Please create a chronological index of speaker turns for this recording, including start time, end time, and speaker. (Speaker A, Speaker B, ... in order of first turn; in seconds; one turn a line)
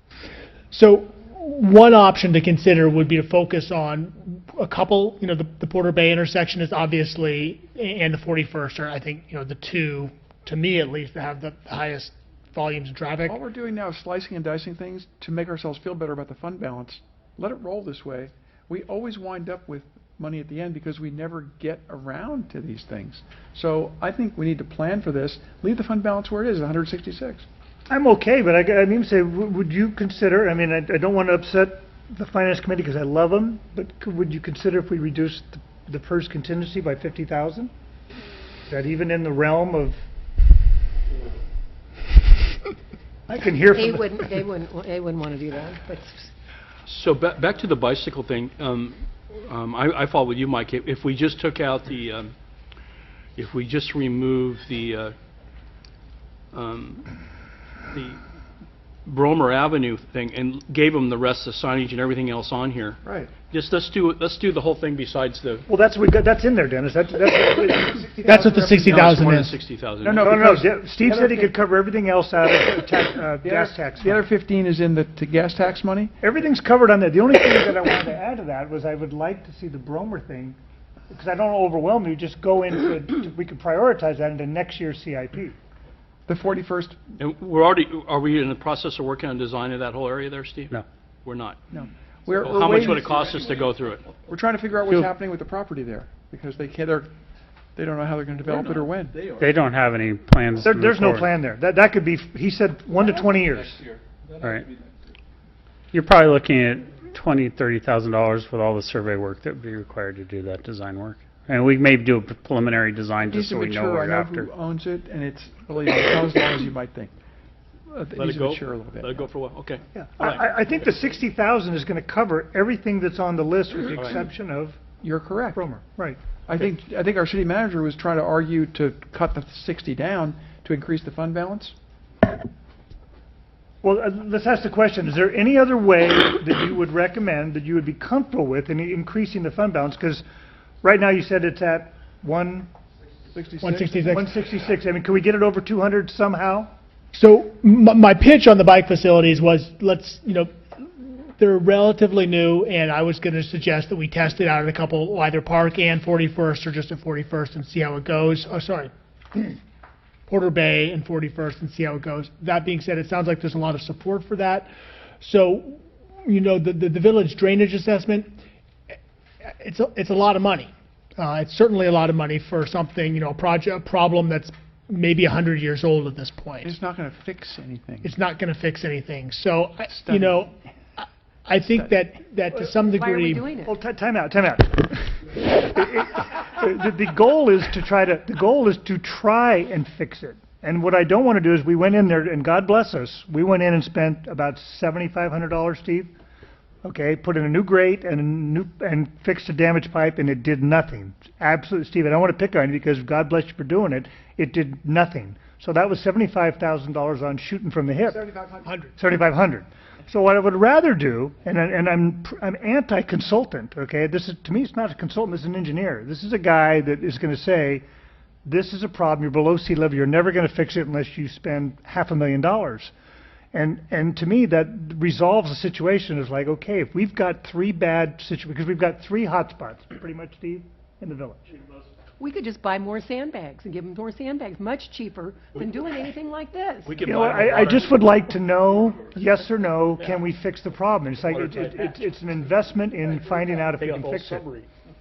Speaker A: 0.7-13.4
Speaker B: 13.2-27.5
Speaker C: 27.9-37.7
Speaker C: 38.7-40.0
Speaker C: 43.3-44.3
Speaker D: 43.7-46.3
Speaker E: 46.9-52.3
Speaker E: 53.4-55.1
Speaker E: 56.5-57.1
Speaker E: 57.9-58.2
Speaker E: 59.1-65.7
Speaker B: 63.0-63.3
Speaker C: 65.7-68.5
Speaker B: 67.9-69.1
Speaker A: 68.2-69.5
Speaker E: 68.8-70.5
Speaker B: 70.0-71.5
Speaker C: 70.0-74.2
Speaker B: 73.4-76.2
Speaker C: 76.2-80.6
Speaker C: 81.1-85.6
Speaker B: 86.3-87.0
Speaker E: 87.2-91.6
Speaker B: 91.7-93.1
Speaker E: 92.3-94.1
Speaker B: 94.2-97.1
Speaker B: 97.8-99.2
Speaker F: 99.2-101.3
Speaker C: 100.6-103.8
Speaker F: 104.4-104.7
Speaker F: 105.9-114.5
Speaker B: 113.2-117.1
Speaker B: 117.9-119.3
Speaker E: 118.2-120.4
Speaker C: 120.0-124.8
Speaker B: 125.0-125.7
Speaker C: 125.6-126.2
Speaker B: 126.5-131.8
Speaker C: 133.8-140.2
Speaker C: 140.8-142.7
Speaker B: 143.3-144.2
Speaker A: 143.6-144.3
Speaker C: 144.1-146.7
Speaker A: 147.1-159.5
Speaker A: 160.3-168.3
Speaker A: 169.4-176.8
Speaker B: 176.6-178.1
Speaker A: 178.0-183.5
Speaker B: 179.9-180.4
Speaker D: 182.6-183.7
Speaker C: 183.7-196.1
Speaker C: 196.8-208.2
Speaker C: 209.0-217.8
Speaker C: 218.4-222.9
Speaker C: 223.5-231.6
Speaker D: 232.2-237.1
Speaker E: 236.8-237.9
Speaker C: 237.0-244.4
Speaker E: 241.3-241.9
Speaker E: 243.6-244.7